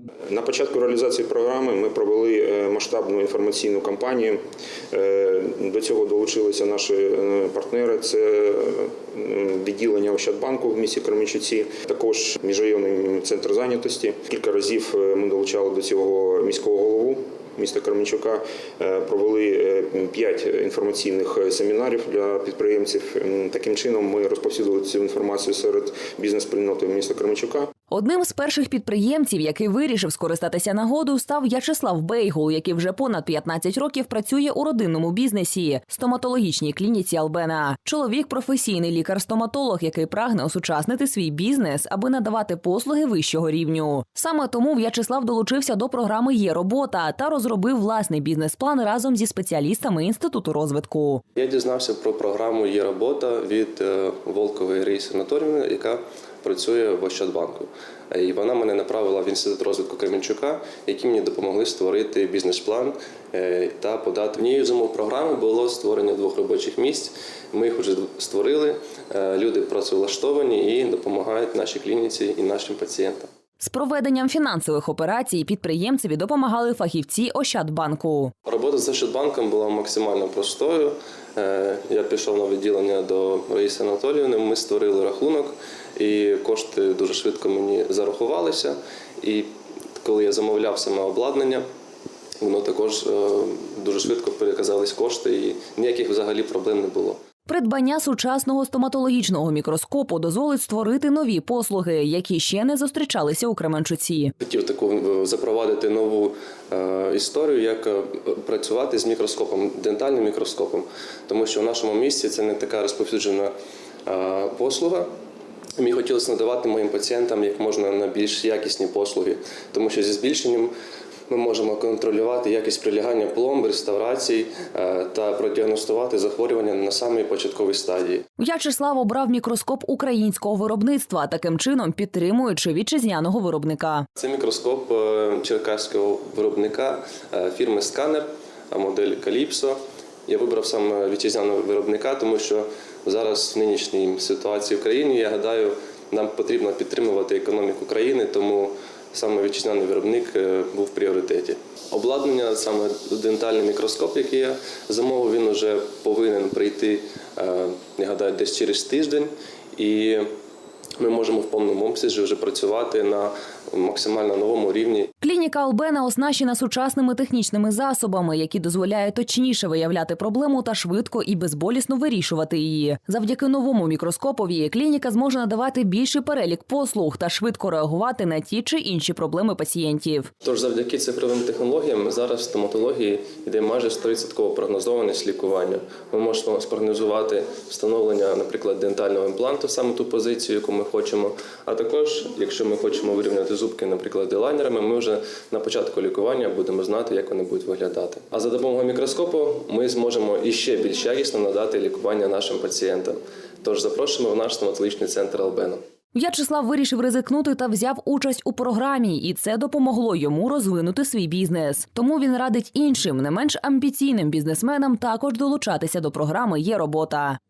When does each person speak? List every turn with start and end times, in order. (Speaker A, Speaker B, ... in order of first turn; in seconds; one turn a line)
Speaker A: 0.3-4.4
Speaker A: 4.9-27.7
Speaker B: 27.9-51.2
Speaker C: 51.4-73.3
Speaker B: 73.6-78.3
Speaker C: 78.4-91.7
Speaker C: 92.4-97.2
Speaker B: 97.5-104.3
Speaker C: 104.4-113.5
Speaker C: 114.0-115.1
Speaker C: 115.8-120.7
Speaker C: 121.3-128.2
Speaker B: 128.4-134.1
Speaker C: 134.2-160.3
Speaker C: 161.0-165.1
Speaker B: 165.2-180.3
Speaker C: 180.4-205.8
Speaker B: 206.1-217.4